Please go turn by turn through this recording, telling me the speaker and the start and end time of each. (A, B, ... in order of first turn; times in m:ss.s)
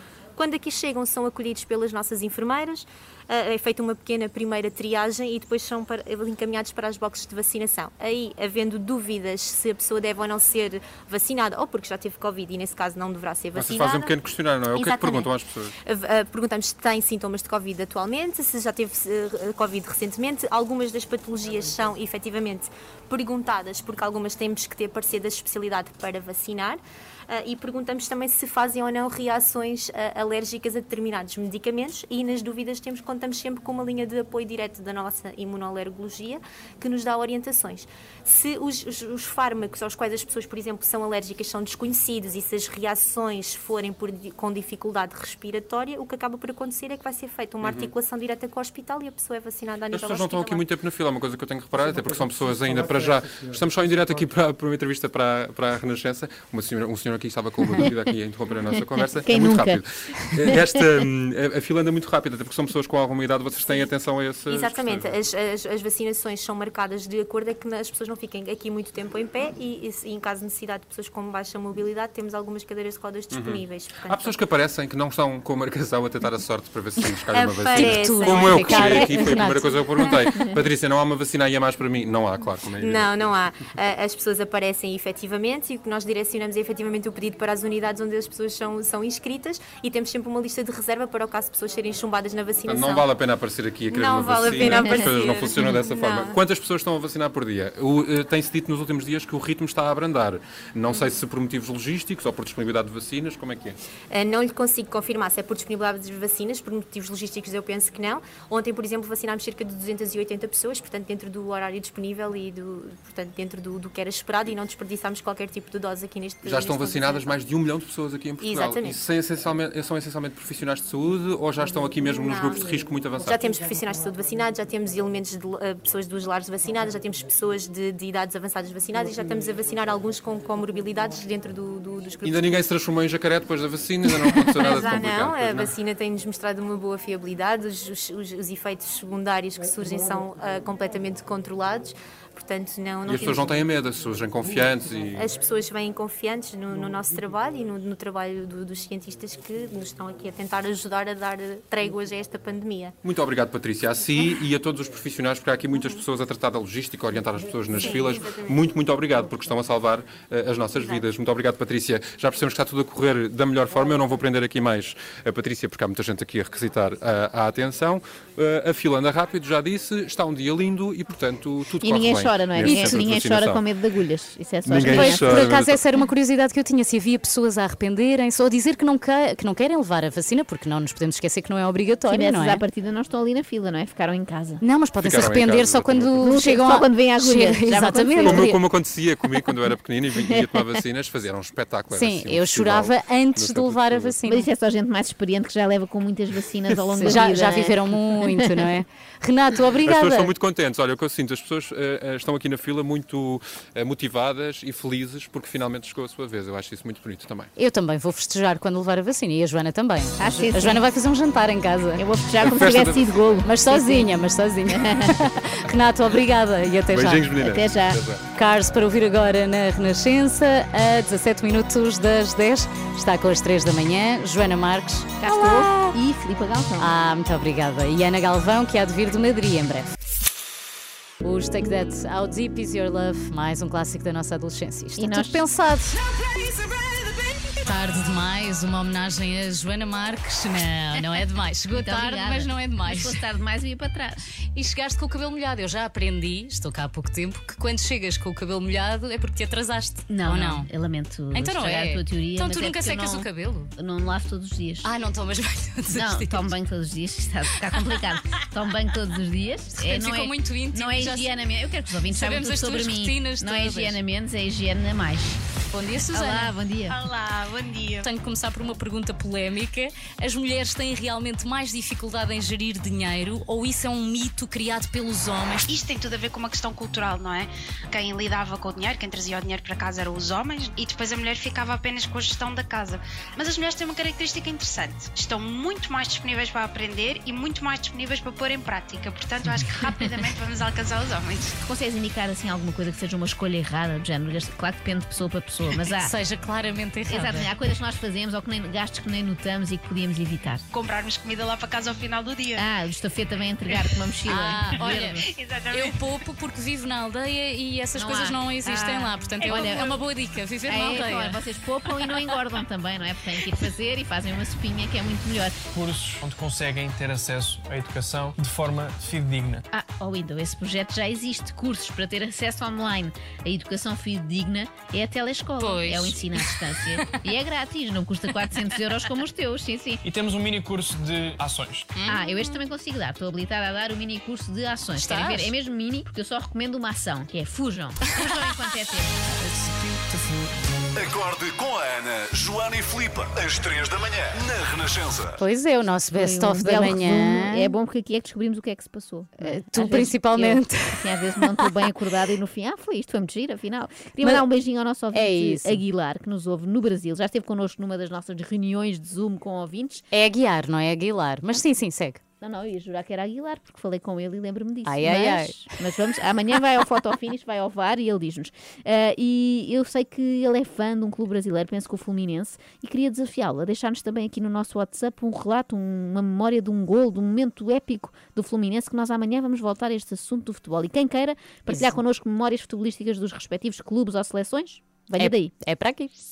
0:00.4-0:14.2 A
0:13.6-0:15.7 B
0:14.8-0:15.2 A
0:15.8-0:50.6 A
0:47.6-0:47.9 B
0:49.9-1:05.2 B
0:57.7-0:58.1 C
0:58.7-0:59.8 C
1:04.5-1:14.3 A
1:13.3-1:23.1 B
1:17.3-1:20.3 A
1:17.8-1:19.7 D
1:22.8-1:33.1 A
1:32.7-1:43.8 B
1:33.9-1:36.4 A
1:44.1-1:57.4 A
1:56.4-2:03.4 B
1:58.4-1:59.0 A
2:02.2-2:02.7 A
2:03.2-2:12.6 A
2:12.2-2:15.8 B
2:14.3-2:23.5 A
2:23.1-2:25.3 B
2:25.2-2:33.0 A
2:33.0-2:53.6 B
2:37.7-2:38.6 A
2:40.8-2:41.1 A
2:51.8-2:55.5 C
2:52.6-2:53.0 D
2:54.6-2:55.8 B
2:54.8-3:02.6 D
3:02.1-3:04.6 C
3:04.6-3:08.6 D
3:05.0-3:06.3 B
3:06.2-3:08.6 C
3:08.2-3:14.2 B
3:10.2-3:10.8 C
3:11.9-3:14.5 D
3:14.2-3:18.6 C
3:16.9-3:20.3 D
3:19.8-3:27.5 B
3:27.6-3:32.0 D
3:30.2-3:30.8 C
3:32.0-3:34.1 C
3:32.4-3:33.4 B
3:33.4-3:37.3 D
3:34.7-3:35.2 C
3:36.9-3:38.2 B
3:37.3-3:38.0 C
3:38.4-3:46.0 D
3:45.2-3:46.9 C
3:46.8-3:50.0 D
3:51.2-3:56.0 D
3:55.0-3:55.4 C
3:57.6-4:03.2 D
4:01.7-4:04.3 C
4:04.6-4:10.7 D
4:10.1-4:14.9 C
4:11.3-4:13.7 D
4:14.8-4:16.5 D
4:15.9-4:25.4 C
4:19.8-4:21.3 D
4:22.1-4:24.0 D
4:25.7-4:26.5 D
4:26.1-4:27.0 C
4:26.9-4:28.1 E
4:28.0-4:35.6 D
4:35.7-4:51.6 E
4:51.6-4:56.1 C
4:56.0-4:57.5 D
4:57.1-5:00.6 C
5:00.7-5:02.7 E
5:02.6-5:05.2 C
5:03.7-5:06.0 E
5:04.3-5:05.2 D
5:05.7-5:11.4 D
5:08.0-5:10.0 C
5:09.4-5:09.8 E
5:10.7-5:15.6 C
5:15.7-5:19.6 F
5:19.7-5:30.0 C
5:25.6-5:27.2 D
5:30.0-5:31.9 F
5:32.0-5:32.2 D
5:32.1-5:39.1 C
5:35.0-5:35.5 D
5:39.4-5:40.5 D
5:41.0-5:45.4 G
5:45.4-5:47.7 D
5:46.1-6:00.0 C
5:49.4-5:51.0 D
5:54.2-5:54.5 D
5:55.1-5:55.8 D
6:00.1-6:02.2 D
6:02.4-6:25.5 C
6:04.8-6:05.7 D
6:21.7-6:22.0 D
6:25.2-6:26.1 D